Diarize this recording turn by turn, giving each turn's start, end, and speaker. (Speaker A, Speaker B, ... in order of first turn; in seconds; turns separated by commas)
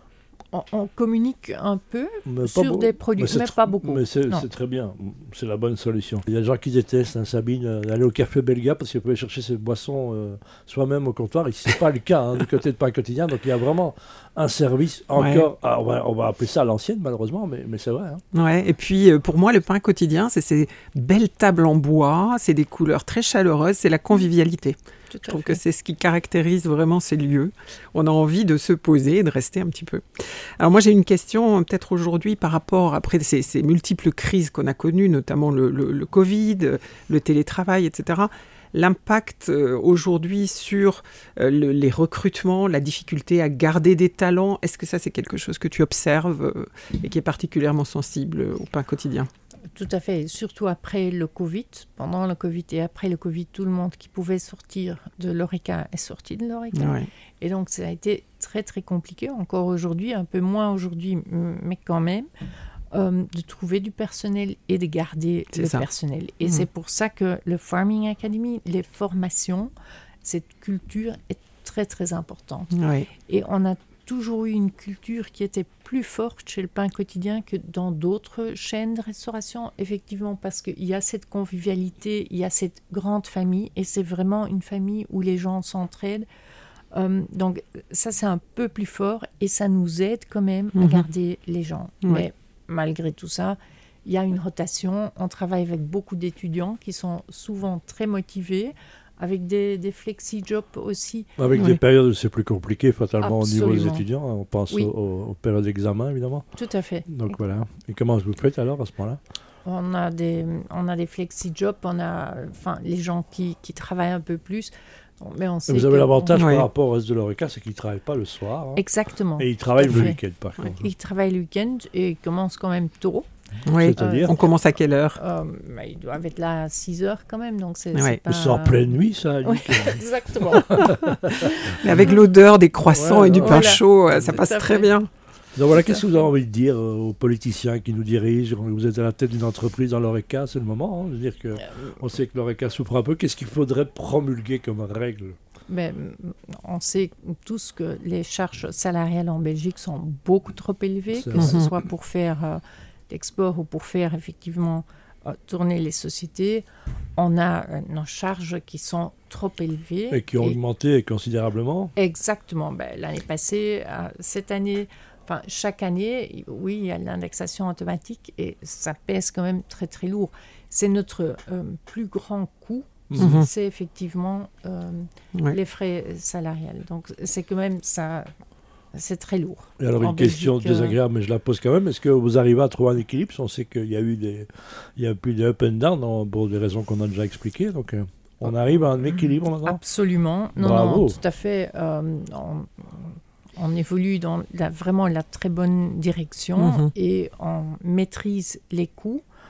Speaker A: 0.5-4.5, Speaker B: 2.2-18.2, Speaker C: 15.2-15.5, Speaker C: 18.3-49.3, Speaker A: 25.1-25.6, Speaker A: 49.7-62.3, Speaker C: 56.7-57.1, Speaker A: 62.9-69.7, Speaker C: 65.5-65.8, Speaker A: 70.2-86.3, Speaker C: 72.7-73.1, Speaker A: 86.9-101.3, Speaker C: 90.7-91.1, Speaker B: 101.4-106.5, Speaker C: 101.5-101.8, Speaker A: 103.2-104.0, Speaker A: 106.6-107.3, Speaker B: 107.1-109.2, Speaker A: 109.6-116.4, Speaker B: 115.7-118.8, Speaker C: 116.3-116.7, Speaker A: 118.8-120.2, Speaker B: 119.4-120.8, Speaker A: 120.8-123.3, Speaker C: 123.7-125.2, Speaker B: 123.7-124.3, Speaker A: 124.0-124.5, Speaker A: 125.2-132.2, Speaker C: 127.9-128.2, Speaker B: 128.3-132.1, Speaker C: 130.8-135.1, Speaker B: 132.9-134.3, Speaker A: 133.3-134.9, Speaker B: 135.5-145.4, Speaker A: 145.7-156.7, Speaker B: 151.1-151.5, Speaker C: 151.4-151.8, Speaker A: 157.2-160.6, Speaker B: 160.1-161.9, Speaker A: 161.9-178.3, Speaker B: 173.1-173.4, Speaker C: 173.2-173.5, Speaker A: 178.9-181.0, Speaker B: 179.8-189.8, Speaker A: 189.6-199.2, Speaker B: 190.6-191.2, Speaker C: 196.6-196.9